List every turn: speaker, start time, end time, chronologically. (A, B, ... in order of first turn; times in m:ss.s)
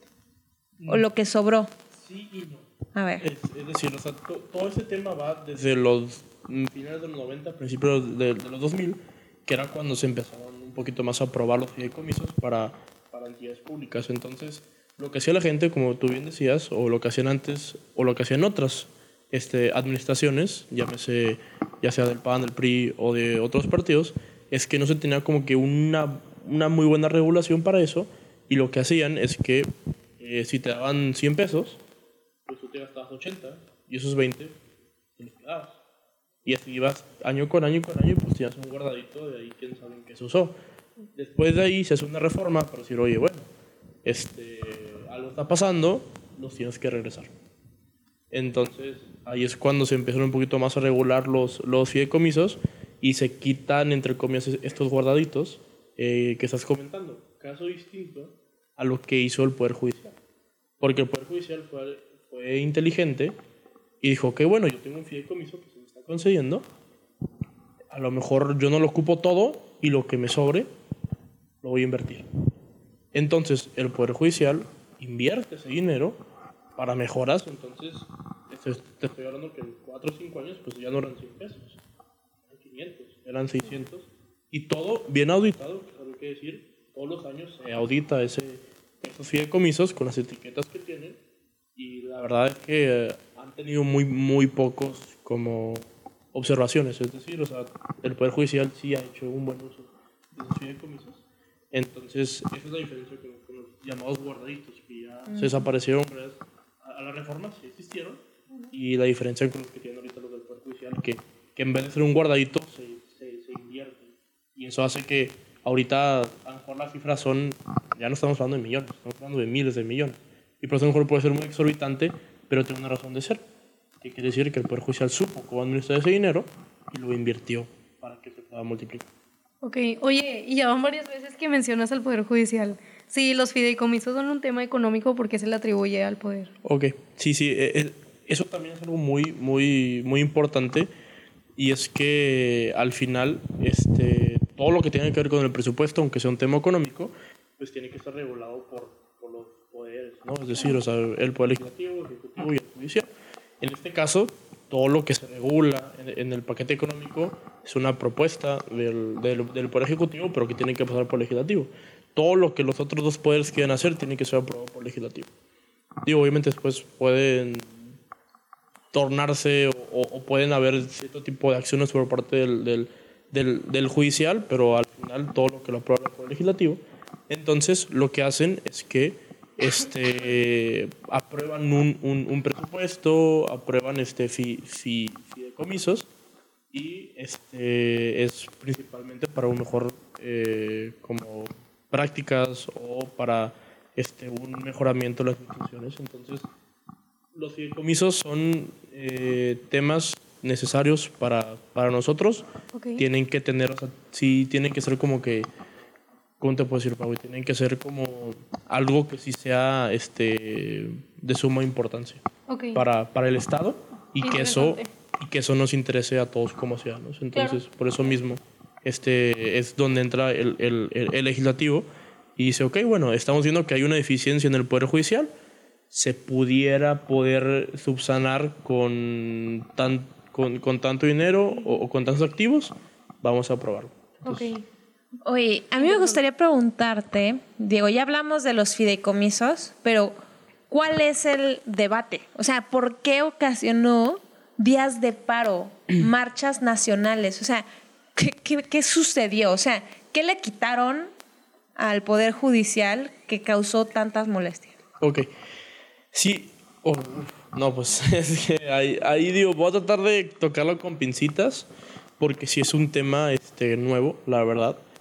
0:00.8-0:01.0 A
0:00.9-0:01.7 B
0:01.9-0:02.7 A
0:02.9-0:03.2 B
0:03.2-0:31.8 A
0:32.4-0:34.6 A
0:35.2-0:35.8 A
0:36.4-0:40.5 A
0:41.1-0:43.5 A
0:44.0-0:47.3 A
0:48.3-1:00.1 A
1:00.8-1:03.4 A
1:04.0-1:06.7 A
1:07.9-1:10.7 A
1:11.6-1:12.3 A
1:13.1-1:16.2 A
1:16.8-1:21.8 A
1:22.5-1:31.2 A
1:31.8-2:03.4 A
2:04.0-2:09.1 A
2:09.6-2:16.5 C
2:16.6-2:20.9 A
2:21.6-2:33.1 A
2:33.6-2:45.3 A
2:46.0-2:48.0 A
2:48.9-3:06.1 A
3:06.7-3:16.5 A
3:17.3-3:22.4 A
3:22.7-3:23.0 C
3:23.0-3:25.5 A
3:26.4-3:32.2 A
3:32.5-3:32.8 C
3:32.7-3:45.3 A
3:34.2-3:34.9 C
3:37.3-3:37.6 C
3:45.9-3:54.5 A
3:54.2-3:54.6 C
3:55.2-4:00.2 B
3:55.8-3:56.2 C
4:00.7-4:07.6 B
4:08.2-4:11.1 B
4:11.8-4:14.8 B
4:15.0-4:15.3 A
4:16.1-4:24.8 A